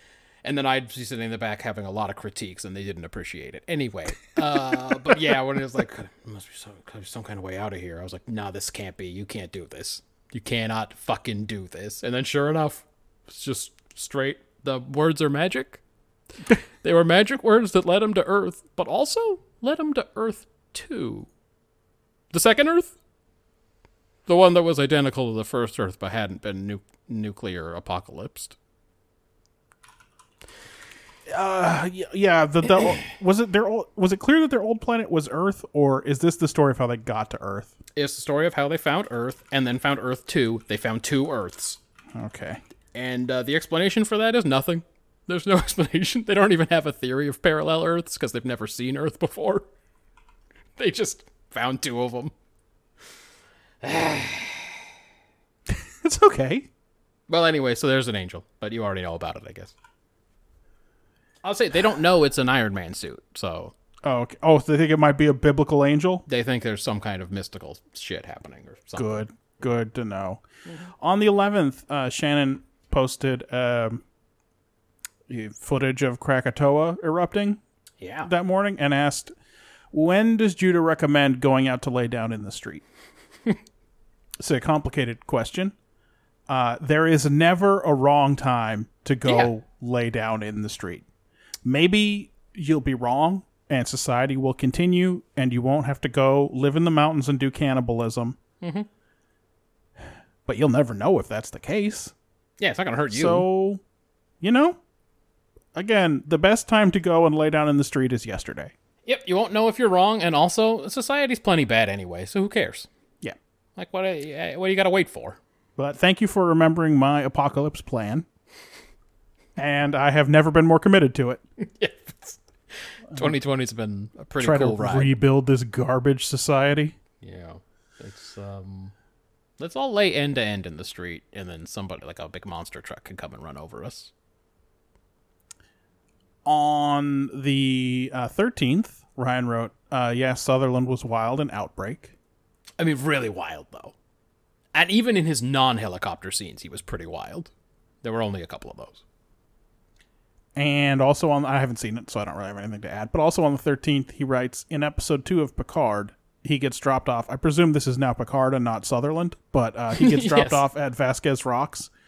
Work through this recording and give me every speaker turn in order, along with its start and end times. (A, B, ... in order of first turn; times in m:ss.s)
0:00.4-0:15.8 A
0:16.8-0:21.3 A
0:22.3-0:22.9 A
0:24.3-0:28.5 A
0:31.3-0:37.7 B
0:38.0-0:41.8 A
0:42.1-0:42.6 B
0:42.9-0:49.7 A
0:50.8-0:52.3 A
0:53.8-0:54.8 A
0:55.7-0:56.7 B
0:57.3-0:59.7 A
1:01.4-1:03.7 A
1:04.0-1:06.2 B
1:06.3-1:09.2 A
1:09.0-1:10.4 B
1:11.0-1:14.0 B
1:15.3-1:17.6 B
1:18.0-1:18.3 A
1:18.2-1:19.3 B
1:19.9-1:22.8 B
1:24.4-1:25.7 B
1:26.5-1:31.0 B
1:29.2-1:29.5 A
1:31.6-1:38.4 B
1:38.6-1:38.9 A
1:40.4-1:42.1 B
1:42.6-1:43.5 A
1:43.1-1:43.8 B
1:44.4-1:44.8 B
1:45.7-1:48.7 B
1:49.0-1:52.9 A
1:53.8-1:55.4 A
1:55.8-1:58.2 B
1:59.6-2:01.4 B
2:01.6-2:05.1 A
2:04.4-2:06.9 B
2:07.2-2:08.9 A
2:09.6-2:14.1 A
2:16.4-2:22.1 B
2:22.8-2:23.9 A
2:24.7-2:27.5 A
2:28.0-2:29.0 A
2:30.5-2:41.9 B
2:39.9-2:40.6 A